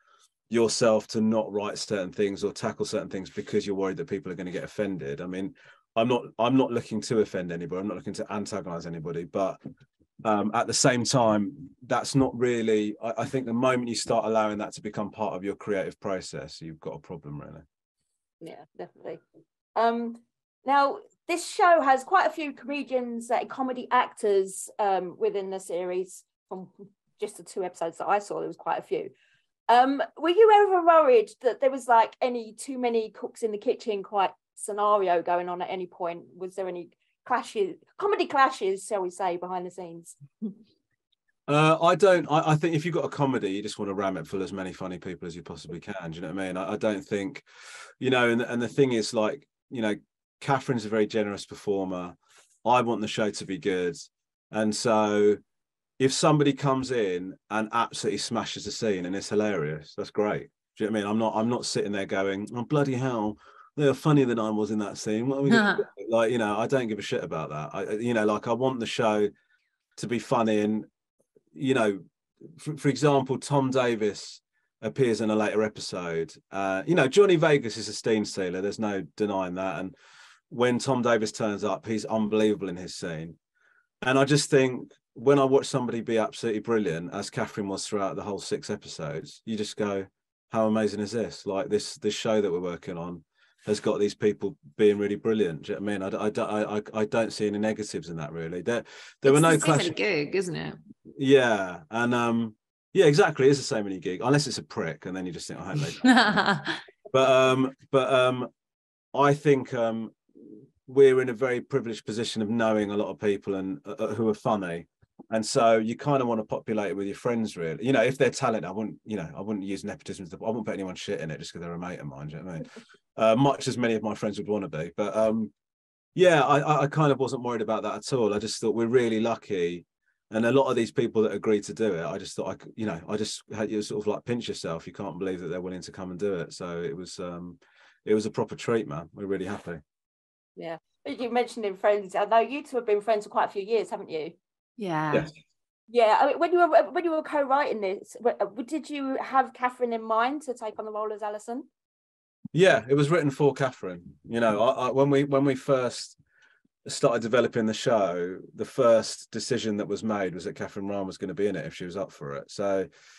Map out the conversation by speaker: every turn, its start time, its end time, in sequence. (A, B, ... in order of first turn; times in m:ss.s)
0:00.5-0:09.6 A
0:10.2-0:17.6 A
0:18.4-0:19.2 B
0:19.7-0:29.1 B
0:29.7-0:40.2 B
0:41.5-0:47.4 A
0:48.0-0:55.4 A
0:56.0-1:09.3 A
1:05.5-1:05.8 C
1:10.0-1:10.9 A
1:11.5-1:19.9 A
1:20.5-1:23.4 A
1:24.0-1:40.0 A
1:39.3-1:40.8 C
1:41.2-1:46.4 A
1:46.0-1:46.8 C
1:47.1-1:48.5 A
1:49.1-2:05.5 A
2:06.2-2:19.8 A
2:20.6-2:24.3 B
2:24.8-2:25.3 C
2:25.9-2:31.7 B
2:32.5-2:36.2 A
2:36.8-2:42.9 A